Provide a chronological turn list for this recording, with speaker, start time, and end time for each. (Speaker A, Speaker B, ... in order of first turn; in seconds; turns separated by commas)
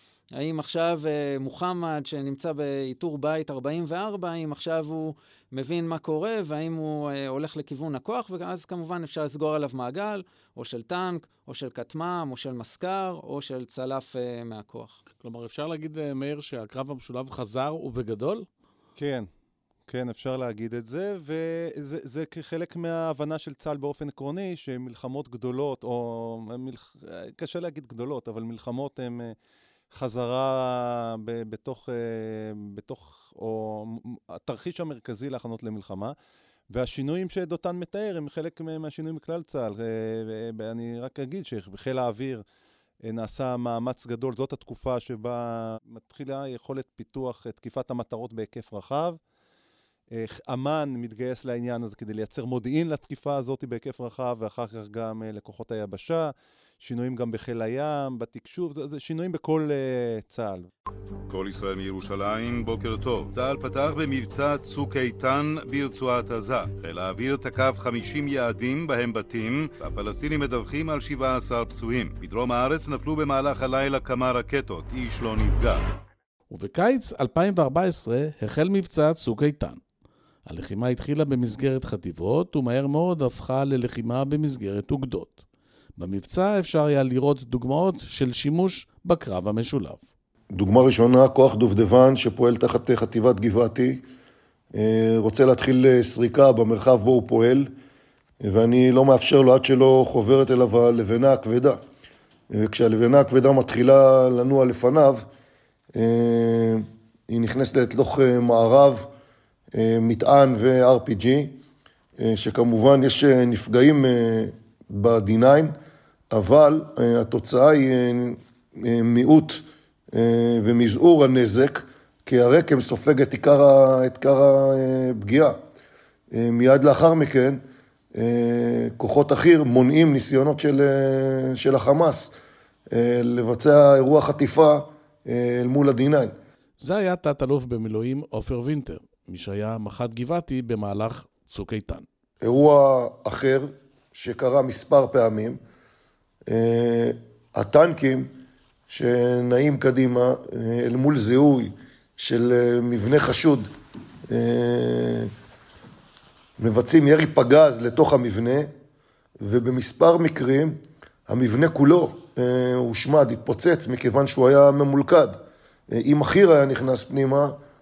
Speaker A: 0.4-15.0, Speaker B: 15.2-18.5, Speaker C: 19.0-19.3, Speaker C: 19.9-29.4, Speaker C: 29.9-36.1, Speaker C: 36.7-42.4, Speaker C: 43.0-49.2, Speaker C: 50.1-60.7, Speaker D: 61.3-75.8, Speaker B: 76.5-79.8, Speaker B: 80.5-85.5, Speaker B: 86.0-90.1, Speaker E: 90.5-94.0, Speaker E: 94.7-97.7, Speaker E: 98.4-101.8, Speaker E: 102.5-105.2, Speaker E: 106.0-109.1, Speaker E: 109.7-111.5, Speaker E: 112.2-115.7, Speaker E: 116.3-119.6, Speaker E: 120.1-125.5, Speaker E: 126.3-127.6, Speaker E: 128.2-132.3, Speaker E: 132.9-136.3, Speaker B: 136.8-142.1, Speaker E: 142.4-145.6, Speaker E: 146.5-148.3, Speaker E: 148.9-153.7, Speaker E: 154.3-155.3, Speaker E: 156.6-158.7, Speaker E: 159.4-160.8, Speaker E: 161.3-165.4, Speaker E: 165.9-167.5